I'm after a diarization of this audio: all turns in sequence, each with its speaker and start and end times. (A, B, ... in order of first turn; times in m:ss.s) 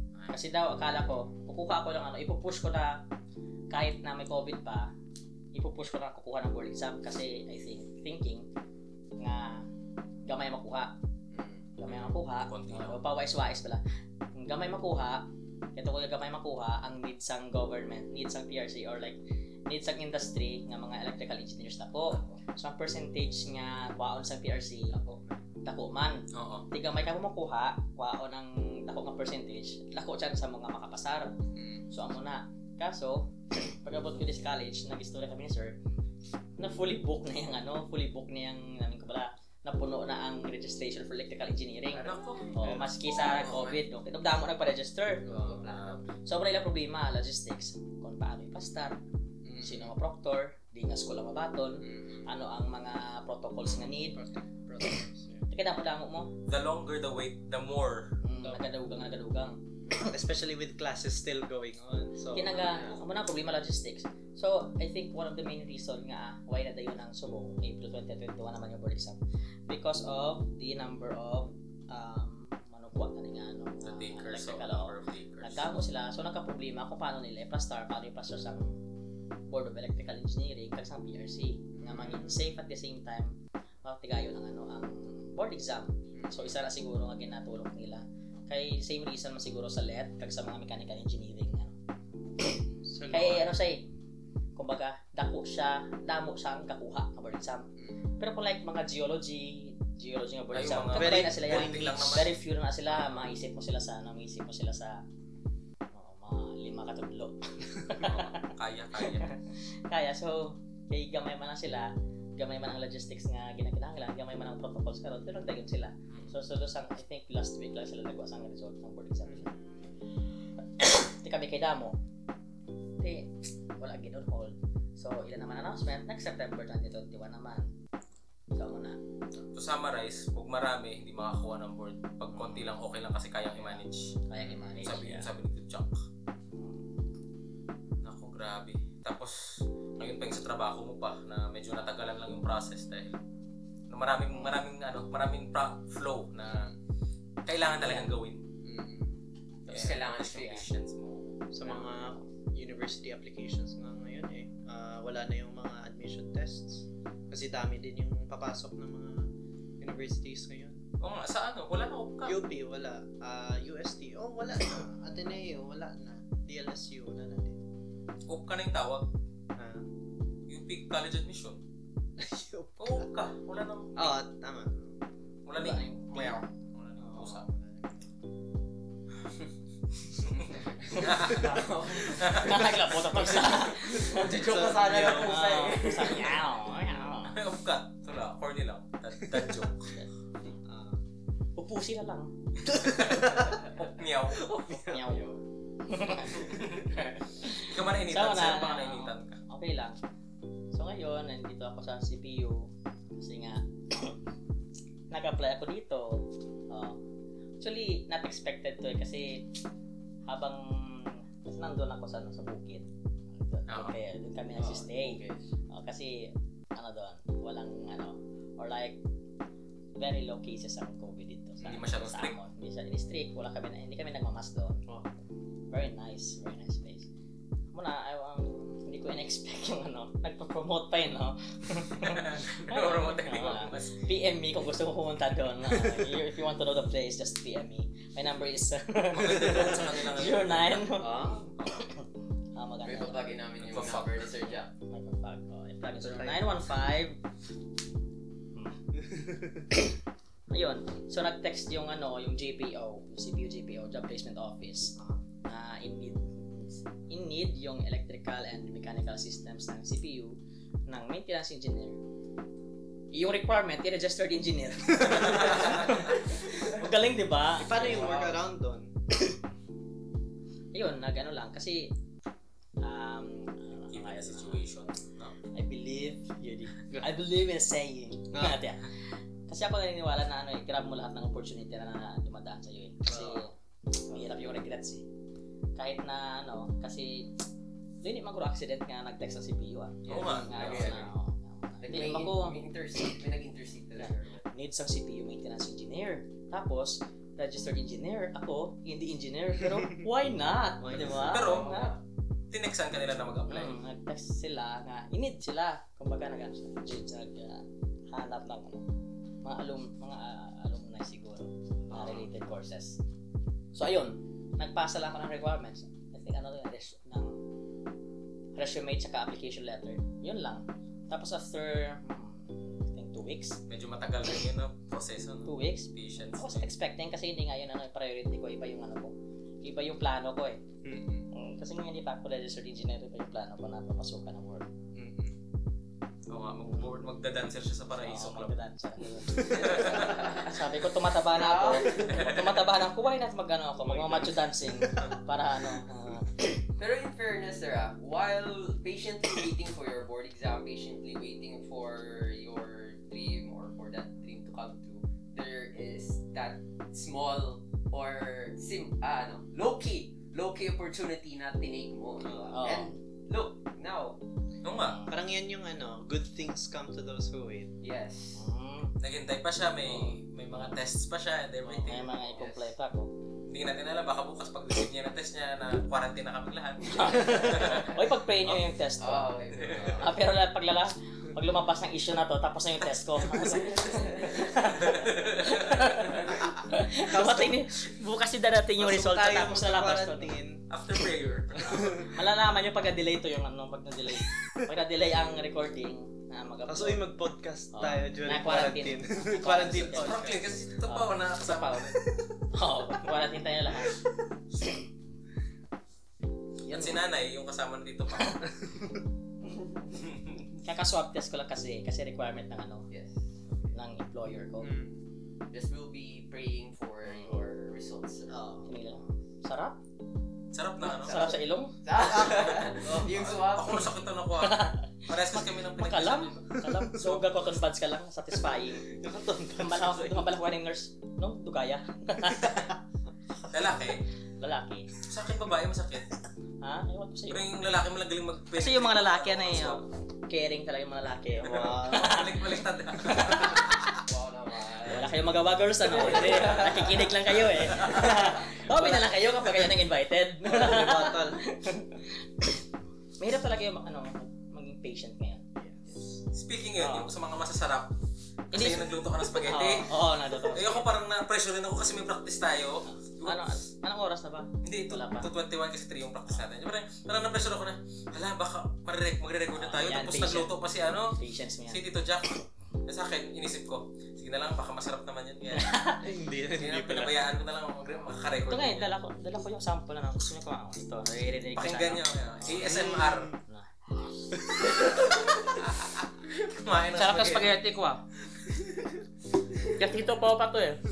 0:00.1-0:00.4 A
0:00.3-0:03.0 B
0:03.7-0:04.9 B
0:05.5-0:08.5 B
0:09.2-0:09.6 B
0:10.3-0:10.9 B
0:11.3-0:11.7 C
0:11.8-0:13.8 B
0:11.9-0:13.0 A
0:14.3-0:25.0 B
0:22.1-0:22.4 C
0:24.9-0:25.4 C
0:25.6-0:31.3 B
0:26.3-0:26.6 A
0:31.5-0:31.8 C
0:31.9-0:35.8 B
0:36.6-0:45.5 B
0:41.9-0:42.8 A
0:42.3-0:43.8 C
0:45.2-0:46.0 C
0:45.4-0:46.0 A
0:46.2-0:49.0 B
0:49.4-0:49.9 C
0:49.6-0:54.2 B
0:51.8-0:52.3 C
0:53.6-0:53.9 A
0:54.1-0:55.4 D
0:54.8-0:56.3 B
0:56.5-0:58.2 A
0:58.2-1:00.1 B
1:00.0-1:02.7 D
1:02.3-1:18.8 B
1:02.6-1:03.0 C
1:13.8-1:15.7 A
1:19.5-1:31.8 B
1:21.8-1:22.3 C
1:26.1-1:26.5 C
1:32.4-1:33.9 B
1:32.9-1:33.5 D
1:34.6-1:37.6 B
1:38.2-1:45.0 B
1:40.5-1:42.3 A
1:40.9-1:42.2 D
1:45.9-1:48.5 B
1:47.9-1:49.3 A
1:49.0-1:59.5 B
2:00.8-2:02.0 B
2:03.0-2:07.7 B
2:08.6-2:09.0 B
2:09.5-2:16.0 A
2:12.4-2:12.6 B
2:13.5-2:15.3 B
2:14.4-2:14.8 C
2:18.0-2:23.2 A
2:23.9-2:26.7 A
2:24.3-2:24.6 B
2:27.5-2:28.4 A
2:27.8-2:28.1 B
2:28.6-2:29.1 C
2:29.7-2:30.7 C
2:29.7-2:31.4 A
2:31.5-2:40.8 D
2:31.6-2:31.9 C
2:41.0-2:42.4 A
2:42.2-2:47.6 D
2:48.3-2:49.1 A
2:49.6-2:49.9 D
2:50.5-2:51.6 A
2:52.2-2:53.1 D
2:52.8-2:54.1 A
2:54.0-2:55.0 D
2:55.5-2:57.4 A
2:55.6-2:56.4 B
2:57.0-2:57.3 B
2:57.2-2:57.8 D
3:00.2-3:02.8 A
3:00.6-3:02.5 C
3:00.9-3:04.4 B
3:03.2-3:06.4 C
3:04.3-3:05.8 D
3:05.0-3:05.3 A
3:05.2-3:07.4 B
3:07.3-3:10.0 A
3:10.6-3:11.0 D
3:11.6-3:12.3 B
3:12.6-3:14.9 A
3:12.7-3:13.6 D
3:14.8-3:15.3 B
3:14.9-3:15.4 C
3:15.9-3:20.0 B
3:16.3-3:19.4 A
3:20.7-3:24.2 B
3:25.1-3:27.0 B
3:27.6-3:29.5 B
3:30.3-3:39.0 B
3:33.7-3:34.0 A
3:34.6-3:35.5 C
3:40.0-3:44.8 B
3:41.6-3:42.4 A
3:45.7-3:47.1 B
3:47.7-4:03.3 B
3:52.0-3:54.0 A
3:59.1-4:00.9 A
4:01.0-4:01.5 C
4:02.8-4:04.7 C
4:03.6-4:04.3 A
4:04.5-4:07.2 B
4:06.0-4:06.4 D
4:08.6-4:08.8 B
4:09.1-4:09.6 D
4:10.5-4:15.0 B
4:15.5-4:20.4 B
4:20.9-4:22.0 B
4:23.1-4:28.1 B
4:25.1-4:26.3 A
4:27.6-4:28.9 D
4:27.7-4:28.4 C
4:30.7-4:31.9 B
4:32.8-4:34.6 B
4:33.9-4:35.4 A
4:35.5-4:45.0 B
4:38.3-4:38.6 D
4:43.1-4:43.4 D
4:45.8-4:47.3 B
4:48.0-4:53.2 B
4:50.1-4:51.1 C
4:50.1-4:51.1 A
4:51.8-4:54.4 C
4:54.0-5:01.9 B
5:00.8-5:01.4 D
5:01.0-5:02.0 A
5:01.3-5:01.9 C
5:02.5-5:03.8 A
5:03.5-5:08.8 B
5:09.4-5:13.0 B
5:13.7-5:17.4 B
5:18.6-5:23.6 B
5:23.7-5:26.7 A
5:25.4-5:30.6 B
5:30.8-5:31.2 C
5:31.3-5:34.7 B
5:35.0-5:35.2 D
5:36.3-5:38.6 A
5:36.6-5:36.9 B
5:38.0-5:46.6 B
5:39.4-5:40.5 C
5:39.5-5:40.4 A
5:41.3-5:42.3 C
5:42.0-5:42.5 A
5:43.9-5:44.3 C
5:46.8-6:04.2 C
6:02.2-6:02.6 D
6:02.5-6:03.0 B
6:04.6-6:05.0 A
6:04.7-6:05.2 B
6:05.1-6:07.7 D
6:07.8-6:08.4 C
6:08.4-6:09.0 B
6:09.0-6:12.4 A
6:09.8-6:10.8 B
6:11.8-6:13.2 B
6:12.4-6:12.7 C
6:13.5-6:18.0 A
6:16.9-6:30.3 B
6:19.0-6:20.2 C
6:19.6-6:19.9 A
6:23.5-6:24.6 C
6:24.8-6:26.0 A
6:27.1-6:27.6 D
6:28.8-6:30.6 D
6:30.7-6:32.2 A
6:31.6-6:32.0 D
6:32.0-6:37.1 B
6:36.7-6:40.6 D
6:37.7-6:40.2 B
6:39.8-6:42.0 A
6:40.8-6:41.9 B
6:42.5-6:44.0 B
6:44.6-6:44.8 B
6:46.7-6:48.5 A
6:46.7-6:47.0 B
6:50.0-6:50.5 A
6:50.6-6:52.9 B
6:52.9-6:53.7 C
6:53.7-6:54.7 B
6:55.5-6:58.4 C
6:57.0-6:57.4 B
6:58.3-6:59.1 D
6:58.6-6:59.8 B
7:00.5-7:01.3 A
7:00.8-7:01.8 B
7:00.9-7:04.0 C
7:02.0-7:03.3 D
7:02.5-7:06.6 A
7:04.4-7:09.0 B
7:06.7-7:07.2 D
7:08.9-7:10.2 D
7:09.5-7:12.7 B
7:13.5-7:14.0 A
7:14.4-7:14.9 B
7:15.0-7:16.1 A
7:16.6-7:17.5 B
7:17.3-7:19.8 A
7:18.6-7:23.9 B
7:21.4-7:22.2 D
7:21.4-7:23.9 A
7:24.0-7:25.1 C
7:24.9-7:32.6 B
7:25.9-7:26.9 D
7:26.1-7:26.5 A
7:26.2-7:26.9 C
7:27.6-7:28.3 A
7:28.7-7:29.1 D
7:30.4-7:31.4 D
7:33.2-7:35.4 B
7:35.6-7:35.9 D
7:36.3-7:37.9 A
7:36.8-7:37.1 B
7:38.5-7:43.4 A
7:38.5-7:40.9 B
7:42.9-7:45.3 B
7:44.6-7:55.8 A
7:49.6-7:50.6 B
7:51.1-7:51.8 B
7:55.5-7:56.1 B
7:56.0-7:57.2 D
7:56.6-7:58.9 A
7:58.5-8:02.9 B
8:01.6-8:03.4 A
8:02.4-8:03.4 D
8:03.5-8:04.1 B
8:04.5-8:05.0 D
8:04.9-8:07.6 A
8:06.9-8:08.0 B
8:09.8-8:10.8 B